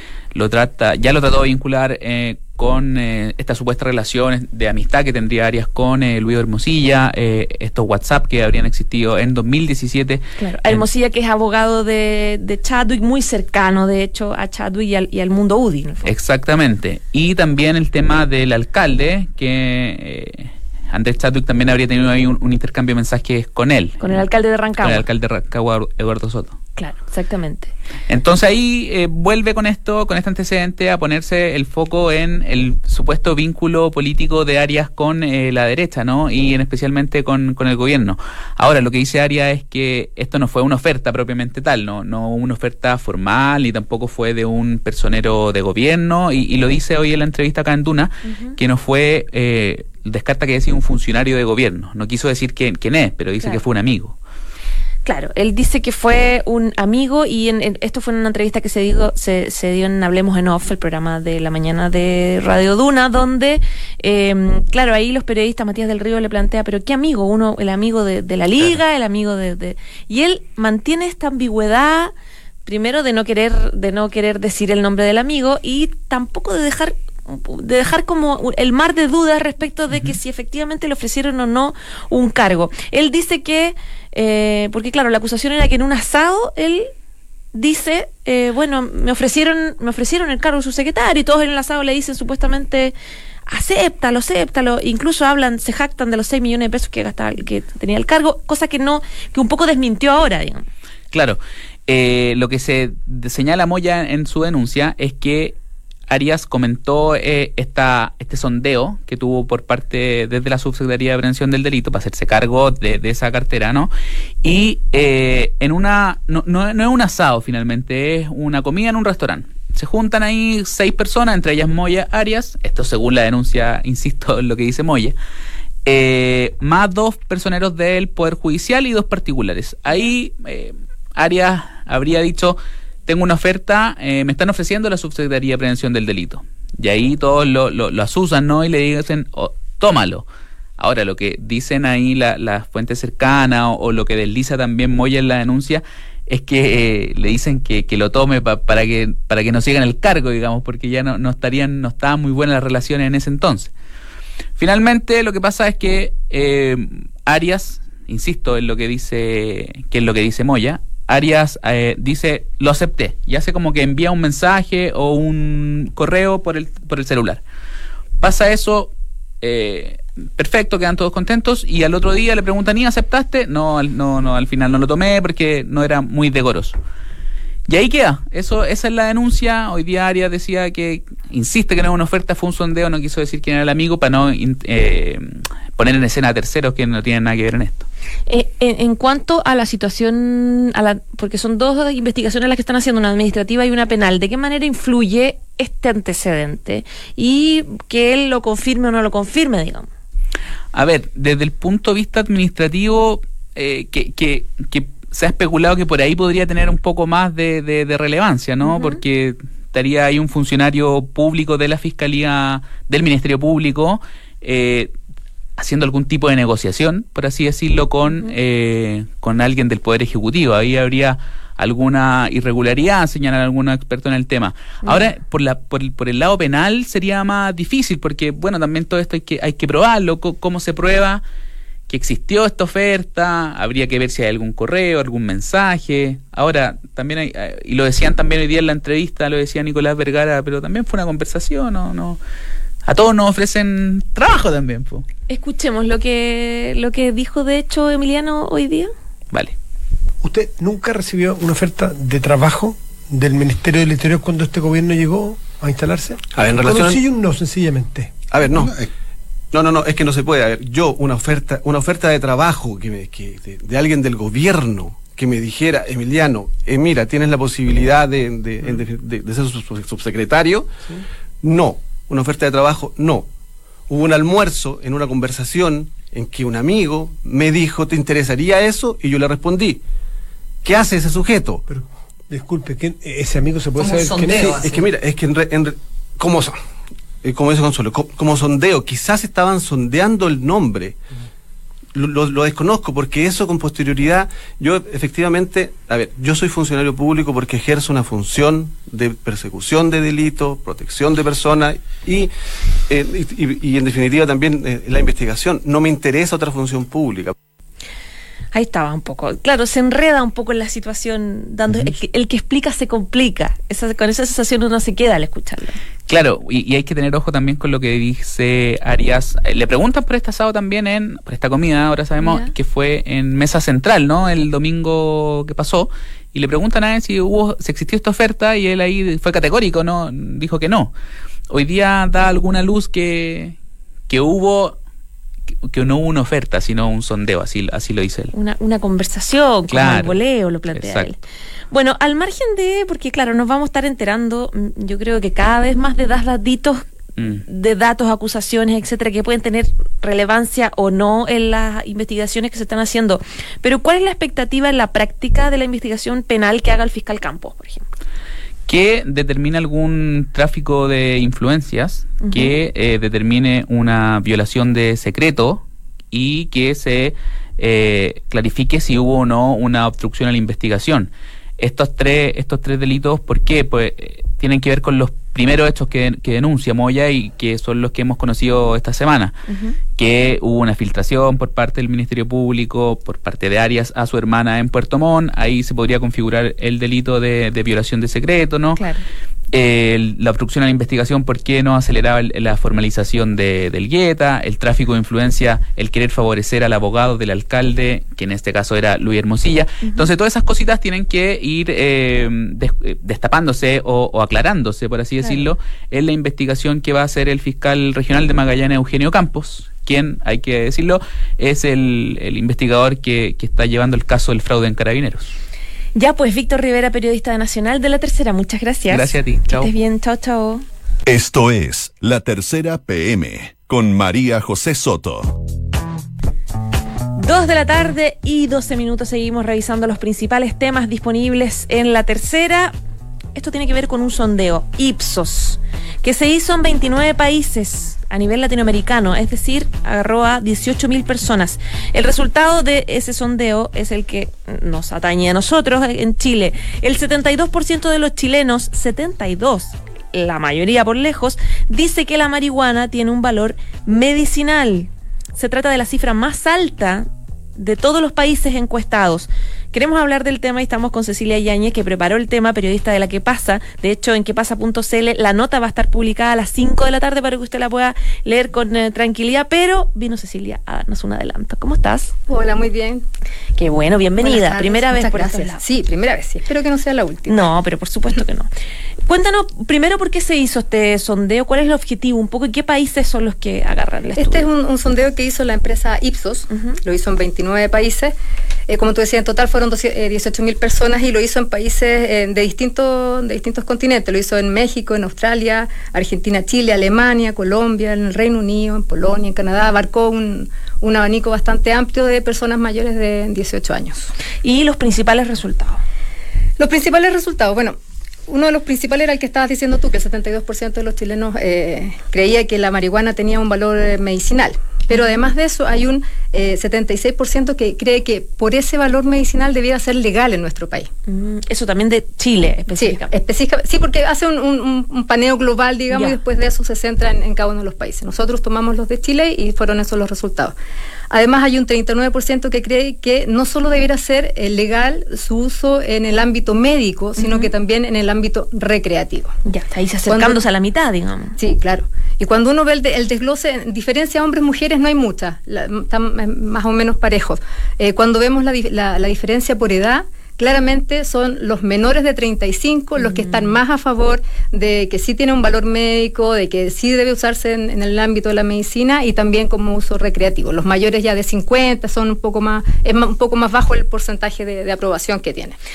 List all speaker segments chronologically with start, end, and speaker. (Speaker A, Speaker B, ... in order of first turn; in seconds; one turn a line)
Speaker A: 0.3-10.8
Speaker B: 10.4-16.1
Speaker A: 16.0-24.2
Speaker B: 24.0-25.1
Speaker A: 24.8-26.6
Speaker B: 26.8-27.7
Speaker A: 28.1-54.1
Speaker B: 48.2-48.6
Speaker B: 55.0-72.1
Speaker B: 72.7-86.9
Speaker B: 87.5-93.0
Speaker B: 93.5-100.6
Speaker A: 101.1-105.6
Speaker A: 106.1-113.9
Speaker A: 114.4-125.2
Speaker A: 125.8-140.2
Speaker A: 140.8-153.7
Speaker A: 154.6-167.4
Speaker A: 168.2-176.8
Speaker A: 177.7-187.9
Speaker B: 188.3-199.9
Speaker A: 200.7-214.9
Speaker B: 208.6-209.0
Speaker A: 215.6-231.2
Speaker B: 224.8-225.1
Speaker A: 231.9-242.2
Speaker A: 242.8-245.1
Speaker B: 245.3-248.9
Speaker C: 250.2-258.6
Speaker D: 256.3-257.0
Speaker D: 258.3-258.9
Speaker D: 259.5-270.7
Speaker D: 271.4-273.3
Speaker D: 273.9-279.8
Speaker D: 280.6-281.6
Speaker C: 281.7-284.7
Speaker D: 284.3-286.6
Speaker D: 287.2-291.0
Speaker D: 291.9-302.3
Speaker D: 302.9-307.3
Speaker B: 308.5-315.8
Speaker A: 316.1-330.9
Speaker B: 322.2-322.5
Speaker A: 331.5-333.6
Speaker A: 334.1-334.8
Speaker A: 335.6-338.3
Speaker B: 338.3-341.2
Speaker A: 339.7-340.2
Speaker A: 340.7-341.1
Speaker B: 341.7-346.8
Speaker A: 347.2-347.4
Speaker B: 347.5-357.9
Speaker A: 358.7-379.4
Speaker B: 362.2-362.5
Speaker B: 379.5-379.8
Speaker A: 379.9-388.8
Speaker B: 388.8-389.0
Speaker A: 389.5-415.3
Speaker B: 399.8-400.1
Speaker B: 405.2-405.5
Speaker B: 415.9-420.6
Speaker A: 418.9-419.7
Speaker E: 421.1-425.4
Speaker B: 427.2-432.7
Speaker B: 433.3-472.1
Speaker F: 472.3-473.0
Speaker B: 473.6-475.6
Speaker F: 474.2-477.4
Speaker B: 477.3-478.5
Speaker B: 479.1-484.5
Speaker F: 484.2-488.1
Speaker F: 488.7-504.1
Speaker B: 504.4-505.8
Speaker F: 506.6-507.8
Speaker F: 508.3-520.9
Speaker B: 521.1-523.1
Speaker F: 522.8-530.5
Speaker B: 525.9-526.2
Speaker F: 531.1-539.3
Speaker B: 537.2-537.5
Speaker B: 539.4-541.4
Speaker F: 540.1-540.4
Speaker F: 541.4-565.5
Speaker B: 553.0-553.6